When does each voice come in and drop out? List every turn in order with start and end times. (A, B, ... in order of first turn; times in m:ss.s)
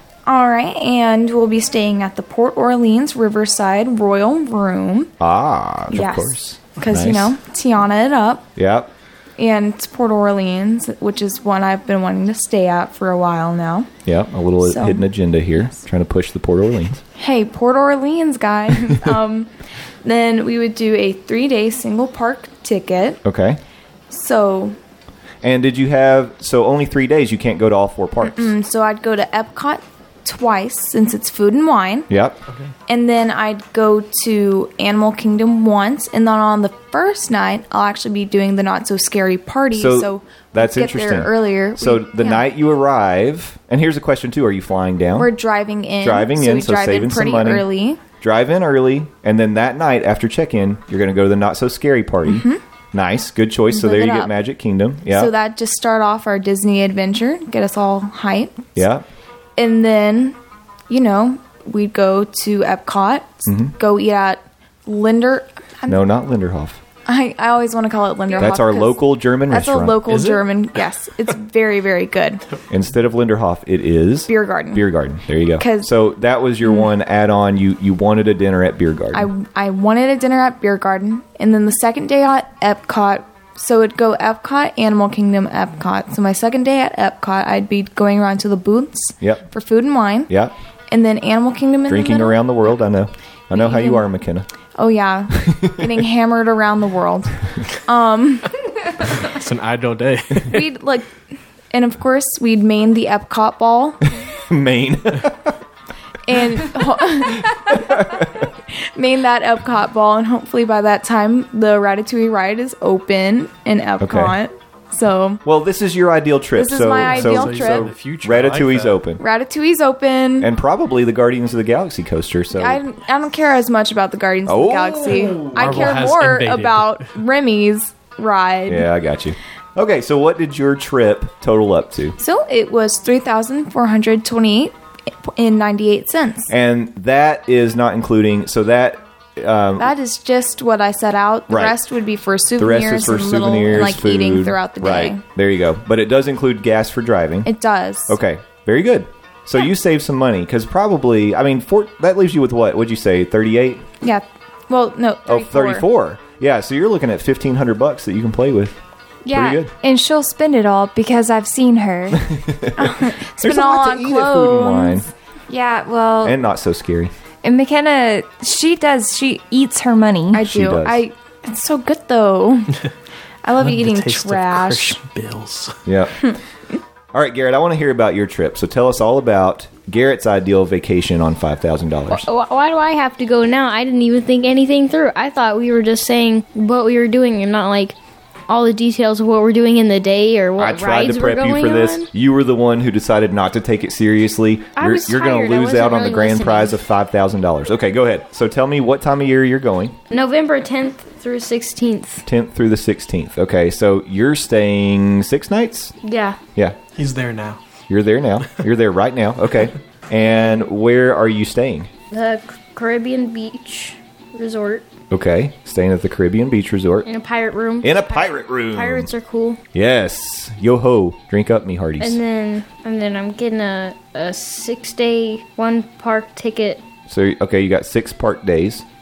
0:00.3-0:05.1 A
0:05.2-0:07.4 B
0:05.9-0:08.5 A
0:08.6-0:08.9 B
0:09.4-0:13.9 A
0:14.1-0:17.0 B
0:14.6-0:15.0 A
0:17.2-0:19.5 A
0:20.0-0:23.2 A
0:23.2-0:23.6 B
0:24.1-0:24.8 A
0:25.4-0:28.5 B
0:28.2-0:32.1 A
0:32.1-0:32.4 B
0:32.9-0:42.4 A
0:39.7-0:45.3 B
0:45.2-0:48.0 A
0:46.0-0:47.7 B
0:48.2-0:55.3 B
0:52.2-0:52.6 A
0:53.7-0:54.3 A
0:55.1-0:58.8 A
0:58.8-0:59.0 B
0:59.6-1:00.4 A
1:00.9-1:06.0 A
1:03.5-1:03.7 B
1:05.9-1:06.8 B
1:07.1-1:12.4 A
1:08.4-1:10.0 B
1:10.1-1:10.4 C
1:12.7-1:19.3 B
1:14.3-1:14.9 A
1:15.6-1:15.9 A
1:19.1-1:30.3 A
1:29.2-1:29.5 B
1:30.9-1:32.4 A
1:31.9-1:34.5 B
1:33.5-1:34.1 A
1:34.8-1:38.5 A
1:35.4-1:35.9 B
1:39.1-1:40.7 C
1:40.5-1:41.2 A
1:41.7-1:44.0 A
1:44.3-1:45.6 B
1:46.2-1:47.8 A
1:47.2-1:48.5 B
1:48.7-1:55.4 A
1:54.0-1:54.4 B
1:55.4-1:59.2 B
1:56.6-1:57.9 A
1:57.1-1:59.0 C
1:59.2-2:00.5 A
2:00.4-2:02.8 B
2:02.5-2:08.9 A
2:04.5-2:06.0 B
2:05.5-2:07.0 C
2:08.7-2:12.2 B
2:12.2-2:16.5 A
2:16.5-2:19.9 B
2:19.8-2:25.2 A
2:21.5-2:21.8 B
2:22.6-2:27.5 B
2:27.4-2:28.2 A
2:28.1-2:33.8 B
2:34.0-2:35.9 A
2:35.3-2:38.8 B
2:39.2-2:42.3 D
2:39.3-2:39.7 B
2:42.2-2:45.1 B
2:42.8-2:45.1 A
2:45.5-2:46.4 D
2:46.2-2:47.1 B
2:47.4-2:50.4 D
2:50.3-2:52.8 A
2:50.4-2:51.0 B
2:53.4-2:55.0 A
2:53.6-2:55.8 C
2:55.9-2:56.3 B
2:57.1-3:02.3 B
3:02.1-3:08.0 E
3:08.5-3:12.1 E
3:10.6-3:20.0 B
3:14.8-3:16.8 E
3:20.1-3:22.2 E
3:22.3-3:26.0 B
3:26.0-3:26.4 E
3:27.0-3:27.6 C
3:27.9-3:31.9 B
3:32.1-3:34.9 E
3:35.1-3:37.1 B
3:37.0-3:39.6 E
3:37.8-3:39.1 B
3:39.7-3:42.2 B
3:42.0-3:46.8 E
3:47.1-3:48.8 B